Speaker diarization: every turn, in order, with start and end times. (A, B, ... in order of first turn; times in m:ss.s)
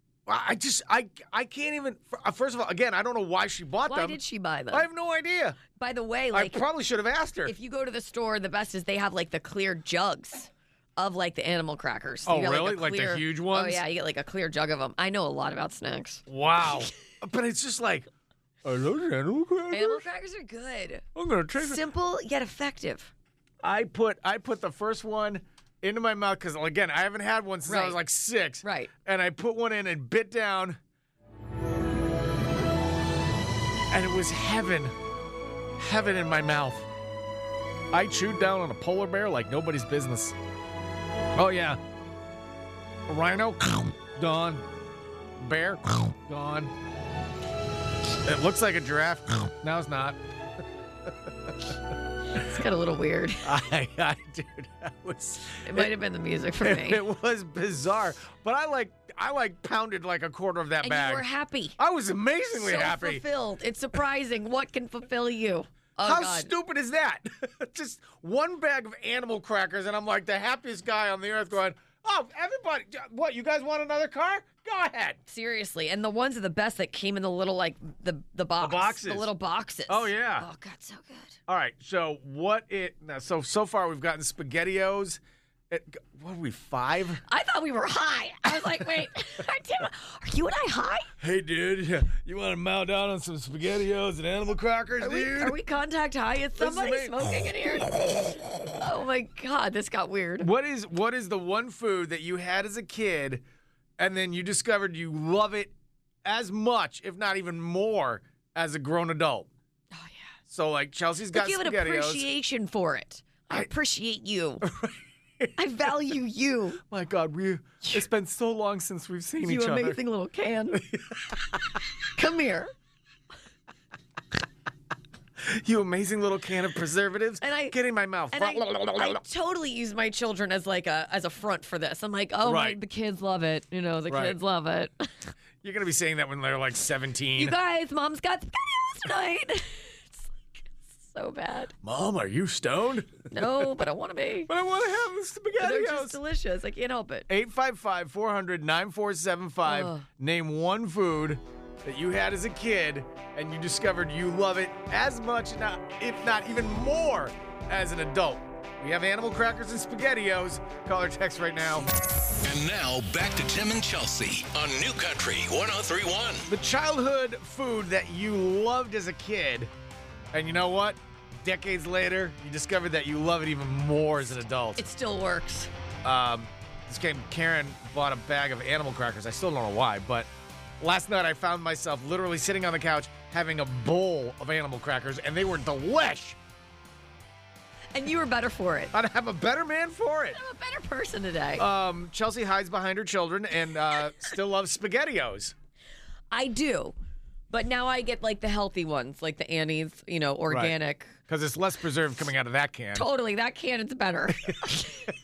0:00.3-0:04.2 A
0:03.9-0:04.9 B
0:04.7-0:05.6 A
0:05.8-0:06.6 B
0:06.3-0:07.6 A
0:07.4-0:16.2 B
0:12.3-0:13.8 A
0:16.3-0:18.1 A
0:18.6-0:20.0 A
0:19.7-0:21.1 B
0:21.2-0:21.8 A
0:21.6-0:23.1 B
0:23.6-0:30.8 A
0:27.7-0:28.0 B
0:28.6-0:28.9 B
0:33.9-0:35.0 A
0:35.8-0:36.9 A
0:37.9-0:40.4 A
0:41.4-0:41.8 A
0:43.1-0:44.7 A
0:45.4-0:46.7 A
0:48.2-0:50.2 A
0:51.1-0:51.5 A
0:52.4-0:53.5 B
0:53.4-0:55.9 A
0:55.6-0:57.0 B
0:56.6-1:01.3 A
1:00.8-1:01.8 B
1:01.8-1:03.2 A
1:02.6-1:06.5 B
1:06.0-1:15.2 A
1:15.3-1:21.4 B
1:18.6-1:19.3 A
1:19.9-1:20.5 A
1:21.5-1:27.2 A
1:27.3-1:31.1 B
1:31.2-1:35.6 A
1:35.0-1:38.1 B
1:36.6-1:38.4 A
1:38.8-1:40.5 B
1:40.4-1:43.4 A
1:44.0-1:49.5 A
1:49.9-1:50.3 B
1:50.5-1:52.3 A
1:51.3-1:54.6 B
1:54.6-1:55.6 A
1:55.6-1:56.8 B
1:56.9-2:00.0 A
1:59.4-2:00.8 B
2:00.7-2:01.6 A
2:02.2-2:02.7 B
2:05.4-2:09.2 A
2:07.4-2:07.8 B
2:08.3-2:15.3 B
2:12.4-2:12.8 A
2:14.1-2:14.4 A
2:15.6-2:17.6 A
2:17.4-2:21.7 B
2:21.8-2:23.4 A
2:23.3-2:24.5 B
2:24.5-2:26.2 A
2:25.6-2:27.3 B
2:27.3-2:41.9 A
2:29.6-2:30.1 B
2:42.4-2:46.5 C
2:46.5-2:49.7 A
2:50.3-2:54.8 A
2:54.8-2:55.7 B
2:56.0-3:00.3 A
3:00.8-3:06.4 A
3:07.9-3:08.9 B
3:08.9-3:10.4 A
3:10.3-3:11.6 B
3:11.6-3:15.6 A
3:16.3-3:17.0 B
3:17.5-3:21.2 B
3:20.5-3:20.8 A
3:21.3-3:23.1 A
3:23.0-3:25.1 B